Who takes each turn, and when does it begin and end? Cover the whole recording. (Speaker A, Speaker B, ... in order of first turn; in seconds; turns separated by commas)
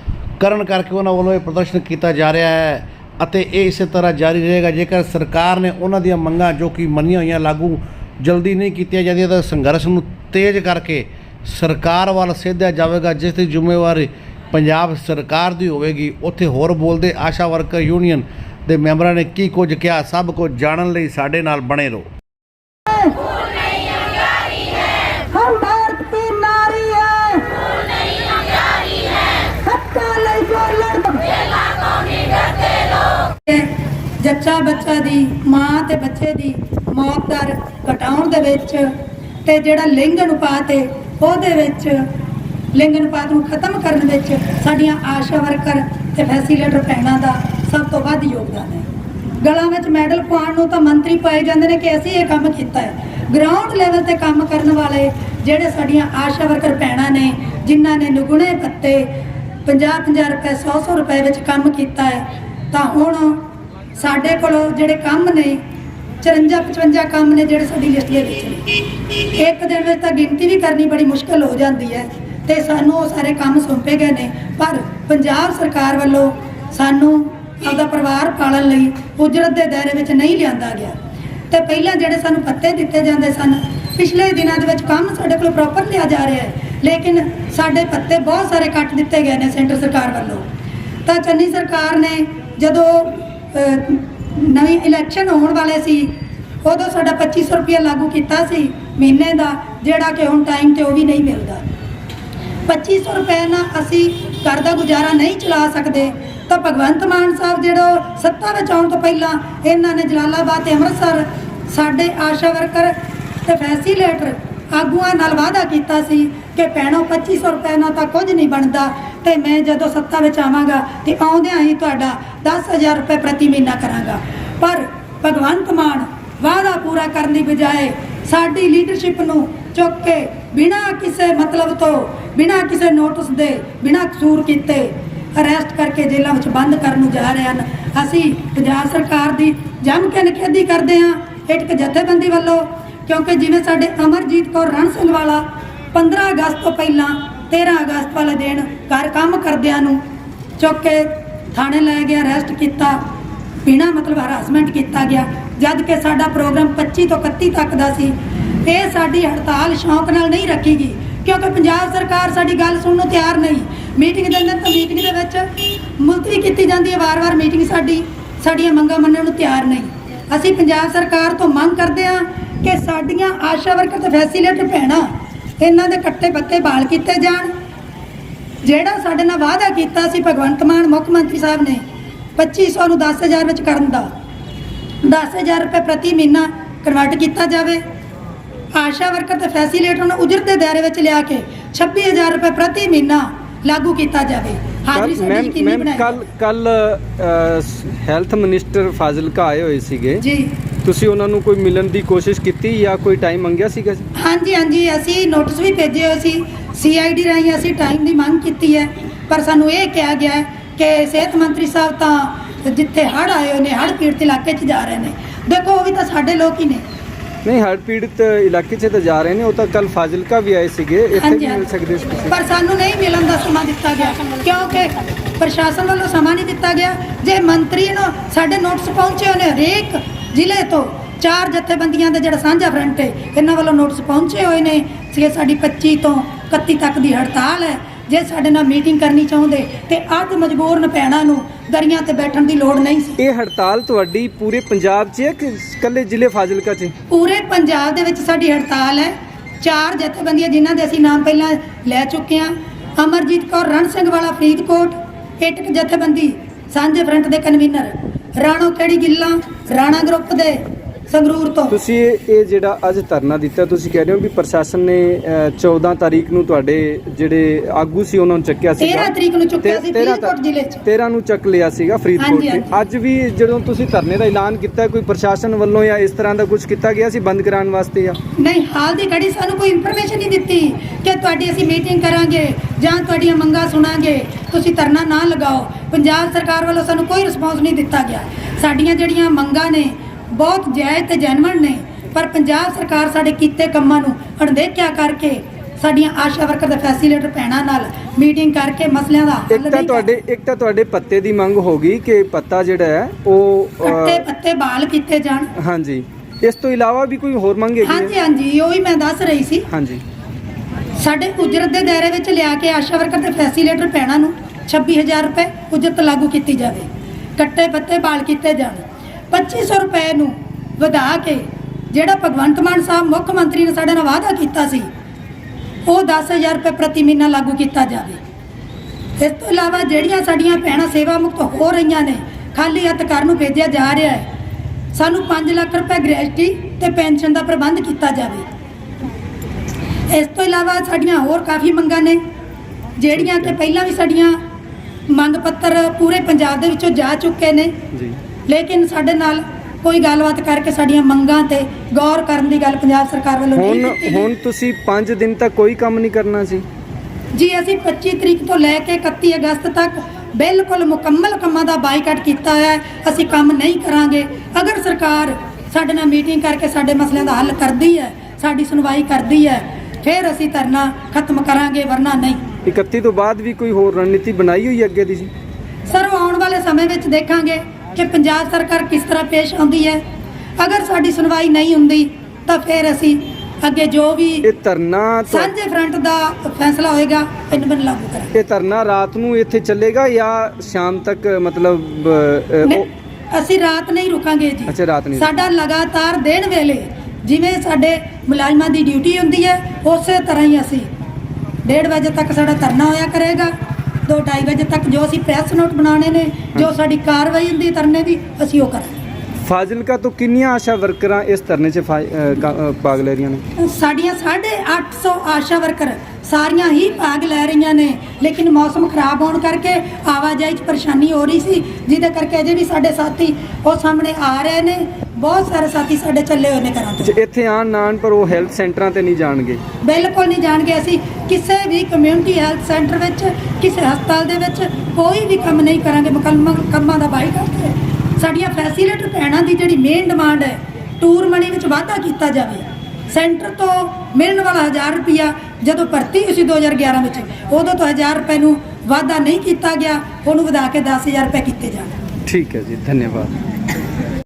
Speaker A: 0.4-22.1, Speaker B: 22.9-23.2, Speaker B: 25.2-27.6, Speaker B: 29.3-31.4, Speaker B: 33.4-38.9, Speaker B: 39.4-42.0, Speaker B: 42.7-48.9, Speaker B: 49.4-59.1, Speaker B: 59.6-65.6, Speaker B: 66.2-81.0, Speaker B: 81.5-90.5, Speaker B: 91.0-101.6, Speaker B: 102.7-150.0, Speaker B: 150.6-153.0, Speaker B: 153.6-165.4, Speaker B: 166.0-175.1, Speaker B: 175.6-177.5, Speaker B: 178.6-181.8, Speaker B: 182.3-184.1, Speaker B: 185.0-187.8, Speaker B: 188.7-196.2, Speaker C: 194.9-200.2, Speaker B: 200.2-200.5, Speaker C: 200.8-204.1, Speaker B: 204.1-216.8, Speaker C: 217.4-222.3, Speaker B: 221.1-243.2, Speaker C: 243.2-246.9, Speaker B: 247.1-260.6, Speaker B: 261.1-261.8, Speaker C: 261.7-270.3, Speaker B: 268.8-270.8, Speaker C: 270.8-278.2, Speaker B: 272.2-272.7, Speaker B: 278.4-300.1, Speaker C: 299.5-304.2, Speaker B: 303.8-305.5, Speaker C: 305.6-308.1, Speaker B: 307.8-309.7, Speaker C: 309.7-310.0, Speaker B: 310.9-324.9, Speaker B: 325.9-328.2, Speaker B: 329.2-334.2, Speaker B: 334.9-338.4, Speaker B: 340.1-342.2, Speaker B: 343.0-344.4, Speaker C: 343.1-343.5, Speaker B: 345.1-347.8, Speaker B: 348.5-354.3, Speaker C: 353.6-356.6, Speaker B: 357.3-372.4, Speaker C: 372.6-375.3, Speaker B: 375.9-380.0, Speaker B: 380.6-384.5, Speaker C: 384.4-385.5, Speaker B: 385.3-388.3, Speaker C: 388.3-392.8, Speaker B: 392.6-400.9, Speaker C: 394.7-395.3, Speaker B: 401.6-403.5, Speaker B: 404.1-409.0, Speaker C: 409.4-413.4, Speaker B: 413.6-427.1, Speaker C: 427.0-429.6, Speaker B: 429.8-451.9, Speaker C: 452.2-453.3